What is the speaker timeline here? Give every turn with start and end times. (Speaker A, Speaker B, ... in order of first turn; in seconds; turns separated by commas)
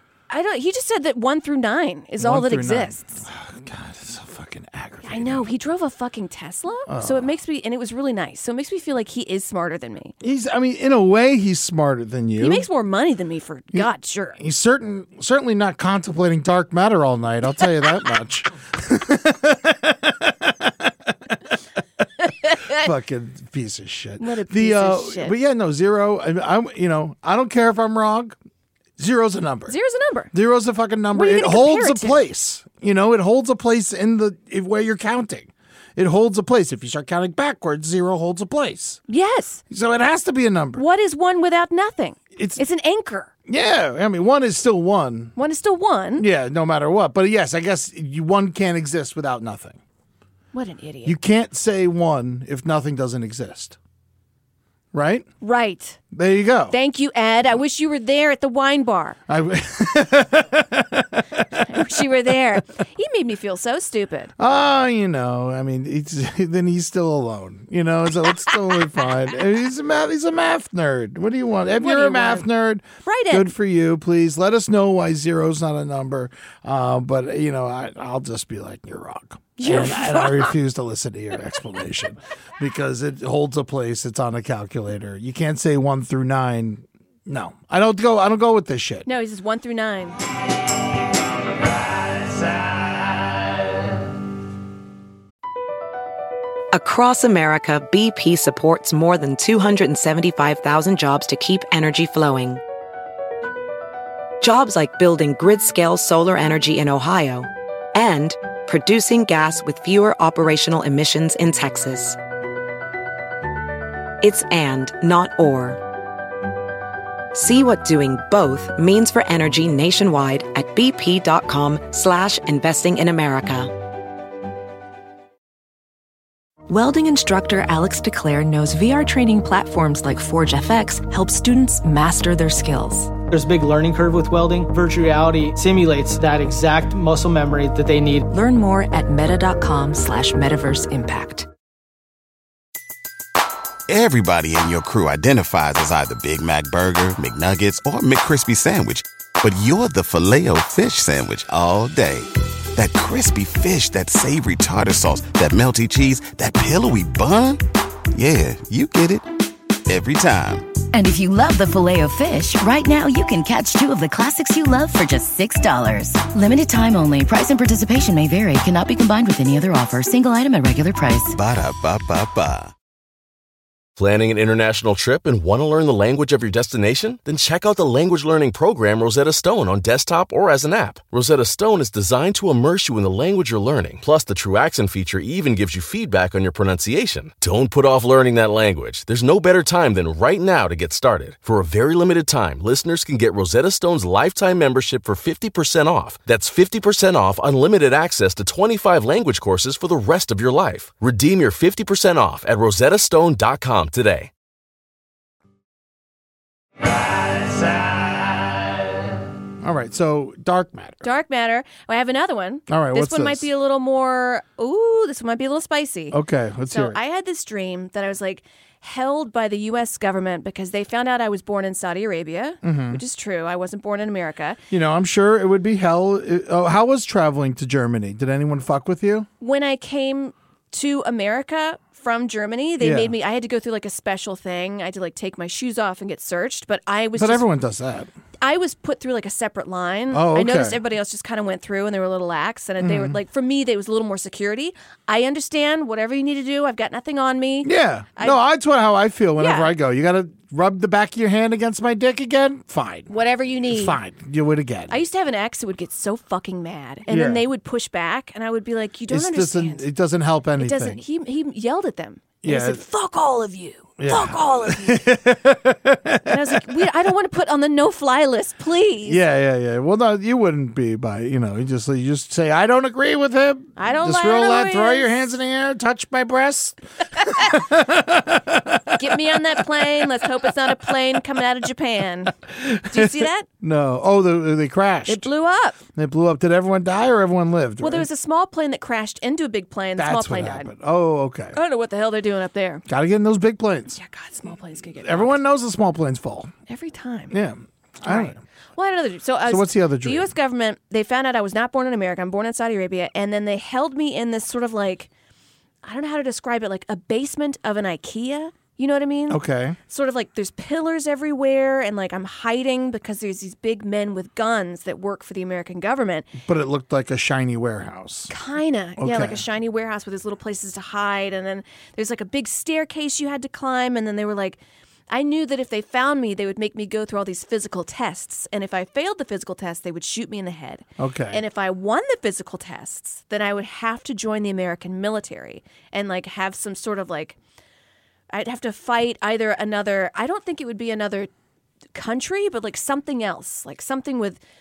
Speaker A: 0.3-3.2, Speaker B: 2.2-5.5, Speaker A: 5.0-10.1, Speaker B: 6.9-7.3, Speaker B: 10.2-12.7, Speaker A: 12.4-14.4, Speaker B: 13.7-21.3, Speaker A: 22.3-22.8, Speaker B: 22.7-28.4, Speaker A: 24.2-25.4, Speaker B: 29.0-29.8, Speaker A: 29.7-30.3, Speaker B: 30.3-39.0, Speaker A: 31.1-32.2, Speaker A: 39.1-39.6, Speaker B: 39.7-40.8, Speaker A: 40.8-43.3, Speaker B: 42.4-42.6, Speaker B: 43.5-45.3, Speaker A: 45.4-46.2, Speaker B: 46.2-49.8, Speaker A: 50.5-51.1, Speaker B: 51.0-53.8, Speaker B: 54.9-55.3, Speaker A: 55.4-56.0, Speaker B: 56.1-56.8, Speaker A: 56.7-59.2, Speaker B: 59.3-61.6, Speaker A: 61.6-64.3, Speaker B: 64.4-89.1, Speaker A: 71.8-72.5, Speaker A: 73.0-73.5, Speaker A: 79.6-80.5, Speaker A: 89.0-90.2, Speaker C: 96.7-102.6, Speaker C: 104.4-112.2, Speaker C: 114.2-115.8, Speaker C: 117.3-123.7, Speaker D: 126.7-133.1, Speaker E: 133.3-138.3, Speaker D: 138.3-141.5, Speaker F: 143.9-157.6, Speaker F: 158.1-159.3, Speaker F: 159.9-160.7, Speaker G: 160.9-171.3, Speaker F: 171.3-172.7, Speaker H: 174.0-204.3, Speaker B: 209.6-211.1, Speaker A: 211.0-216.2, Speaker B: 212.7-213.5, Speaker B: 216.1-217.0, Speaker A: 216.7-224.6, Speaker B: 222.6-223.0, Speaker B: 224.7-229.3, Speaker A: 229.4-237.4, Speaker B: 232.8-233.1, Speaker B: 237.2-238.1, Speaker A: 238.4-248.4, Speaker B: 240.1-240.8, Speaker B: 242.8-243.2, Speaker B: 247.6-253.1, Speaker A: 249.4-249.7, Speaker A: 253.1-254.0, Speaker B: 253.6-255.0, Speaker A: 254.9-259.8, Speaker B: 257.1-257.4, Speaker B: 259.1-261.0, Speaker A: 260.6-265.0, Speaker B: 262.4-262.8, Speaker B: 264.0-266.8, Speaker A: 266.2-269.2, Speaker B: 269.0-280.9, Speaker A: 273.8-275.3, Speaker A: 278.9-282.3, Speaker B: 282.5-285.3, Speaker A: 282.9-283.5, Speaker A: 285.1-285.8, Speaker B: 285.9-288.1, Speaker A: 287.8-290.7, Speaker B: 289.9-291.6, Speaker A: 291.5-292.8, Speaker B: 292.9-294.0, Speaker A: 293.9-295.4, Speaker B: 295.0-296.5, Speaker A: 296.7-297.3, Speaker B: 297.3-298.4, Speaker A: 298.0-305.1, Speaker B: 299.4-300.3, Speaker A: 305.8-316.3, Speaker B: 309.3-309.8, Speaker B: 316.4-318.3, Speaker A: 318.3-337.4, Speaker B: 319.0-319.4, Speaker B: 331.0-331.4, Speaker A: 338.3-341.3, Speaker A: 341.9-344.4